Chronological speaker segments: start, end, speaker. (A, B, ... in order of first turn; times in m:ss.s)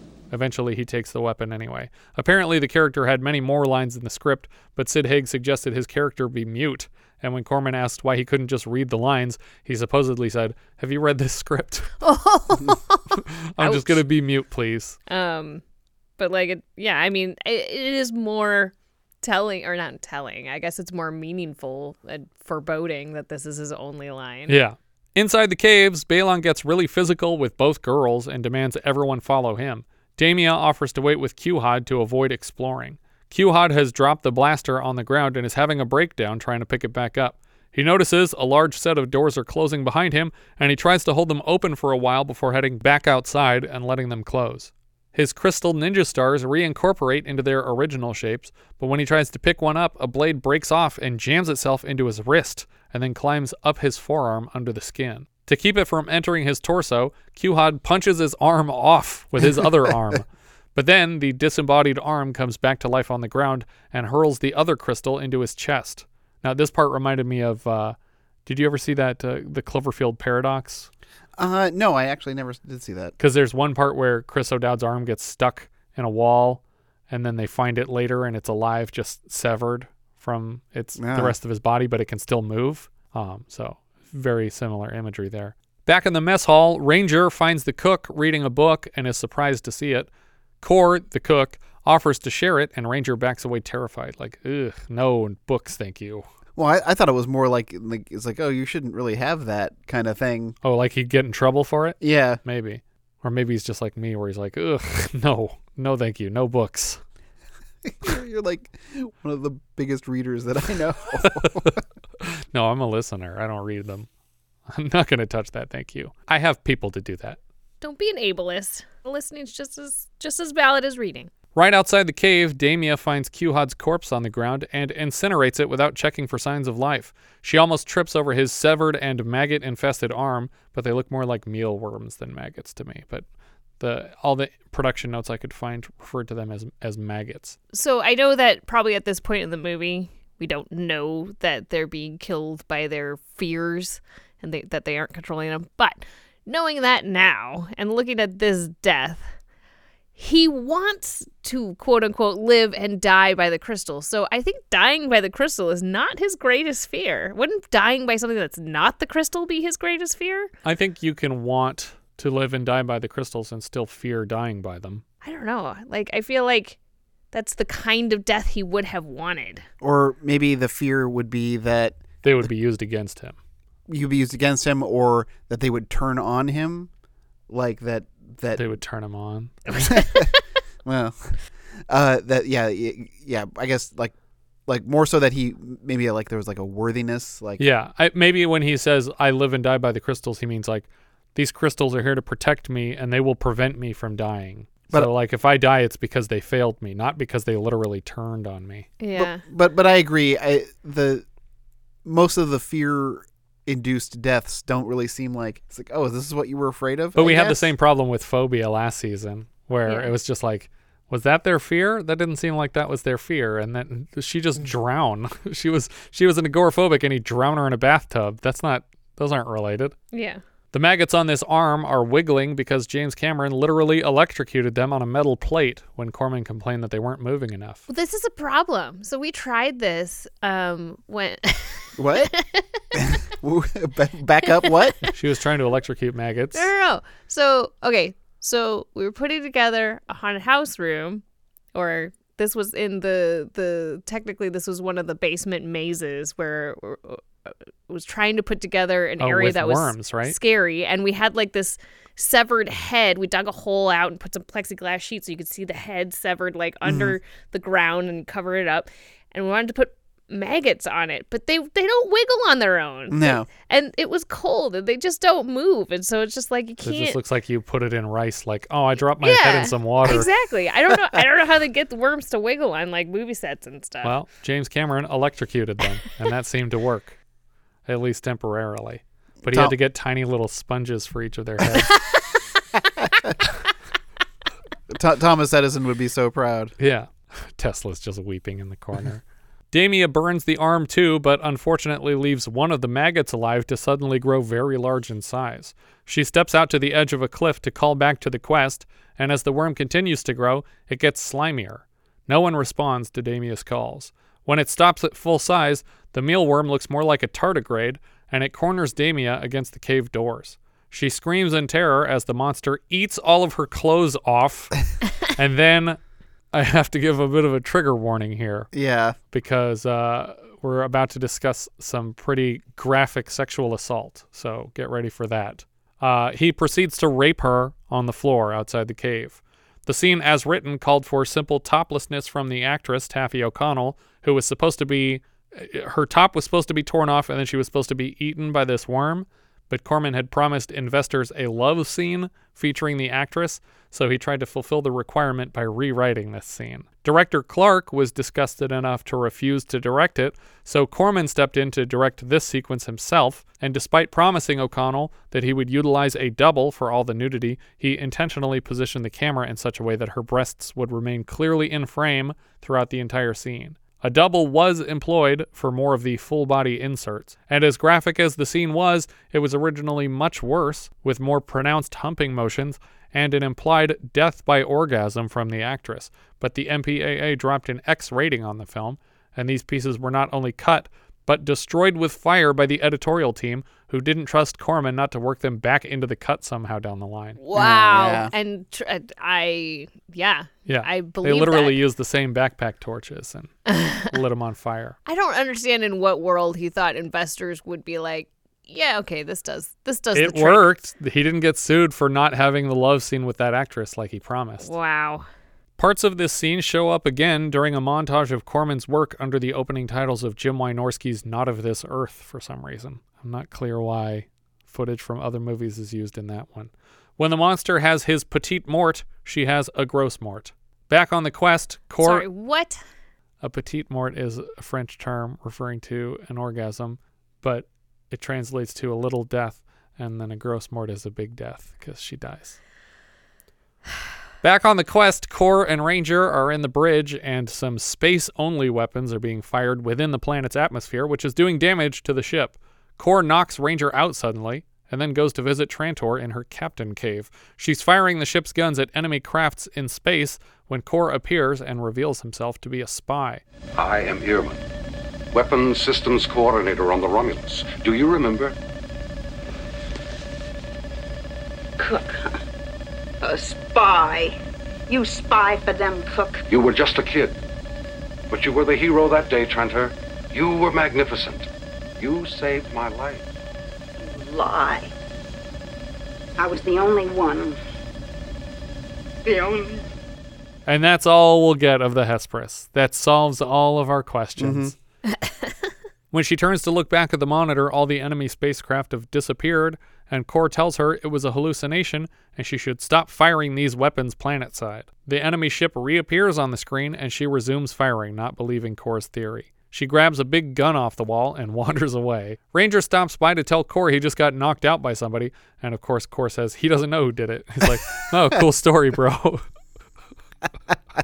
0:00.3-0:11.9 A
0:12.0-0:14.0 B
0:13.5-0:15.0 A
0:15.1-0:15.6 B
0:16.2-0:24.6 B
0:24.5-1:10.9 A
1:11.4-1:13.1 C
1:13.2-1:30.1 A
1:21.0-1:21.3 C
1:30.6-1:36.2 A
1:36.6-1:40.6 C
1:40.6-1:47.0 A
1:42.0-1:42.4 C
1:47.8-1:51.8 C
1:51.3-1:54.1 A
1:54.7-1:57.4 A
1:57.8-2:01.3 B
2:01.5-2:13.2 A
2:13.8-2:17.6 A
2:17.7-2:29.3 B
2:30.2-2:40.5 B
2:40.6-2:45.0 A
2:45.2-2:46.8 B
2:47.3-2:49.6 B
2:49.8-2:52.0 C
2:52.2-2:53.4 A
2:53.9-2:56.9 C
2:57.5-2:58.6 C
2:58.5-2:59.6 A
2:59.7-3:01.4 C
3:01.9-3:04.1 C
3:04.7-3:07.6 C
3:07.6-3:18.9 A
3:19.0-3:19.4 B
3:19.1-3:21.2 C
3:22.0-3:27.7 C
3:27.1-3:40.0 A
3:29.9-3:30.1 B
3:40.1-3:40.4 B
3:40.7-3:47.8 A
3:47.9-3:52.6 B
3:52.0-3:52.3 C
3:52.9-3:55.0 C
3:54.6-3:54.9 B
3:55.1-3:56.7 A
3:56.5-4:01.2 B
4:01.7-4:27.2 B
4:09.2-4:10.3 A
4:16.8-4:17.1 C
4:23.1-4:23.5 C
4:26.8-4:30.3 A
4:29.2-4:34.2 B
4:34.0-4:37.2 A
4:37.9-4:42.0 A
4:39.4-4:39.8 C
4:44.9-4:46.7 C
4:46.8-5:14.7 A
5:15.3-5:16.0 A
5:16.5-5:18.7 A
5:18.7-5:19.2 C
5:19.3-6:27.4 A
6:27.4-6:31.8 B
6:27.5-6:28.3 C
6:30.7-6:33.5 A
6:33.7-6:34.1 B
6:34.1-6:35.0 A
6:35.0-6:40.6 B
6:40.1-6:44.7 A
6:44.6-6:45.2 B
6:45.8-7:02.2 A
7:02.0-7:02.8 B
7:03.4-7:12.6 A
7:14.4-7:33.4 A
7:33.7-7:34.6 D
7:35.3-7:38.5 D
7:41.8-7:42.4 E
7:43.2-7:44.4 E
7:44.9-7:46.4 E
7:46.5-7:47.4 D
7:48.3-7:51.5 D
7:52.0-7:53.2 D
7:54.0-7:54.9 E
7:56.4-7:57.6 E
7:59.2-7:59.8 E
8:00.7-8:04.7 A
8:04.4-8:04.7 C
8:05.1-8:05.5 B
8:06.1-8:29.4 A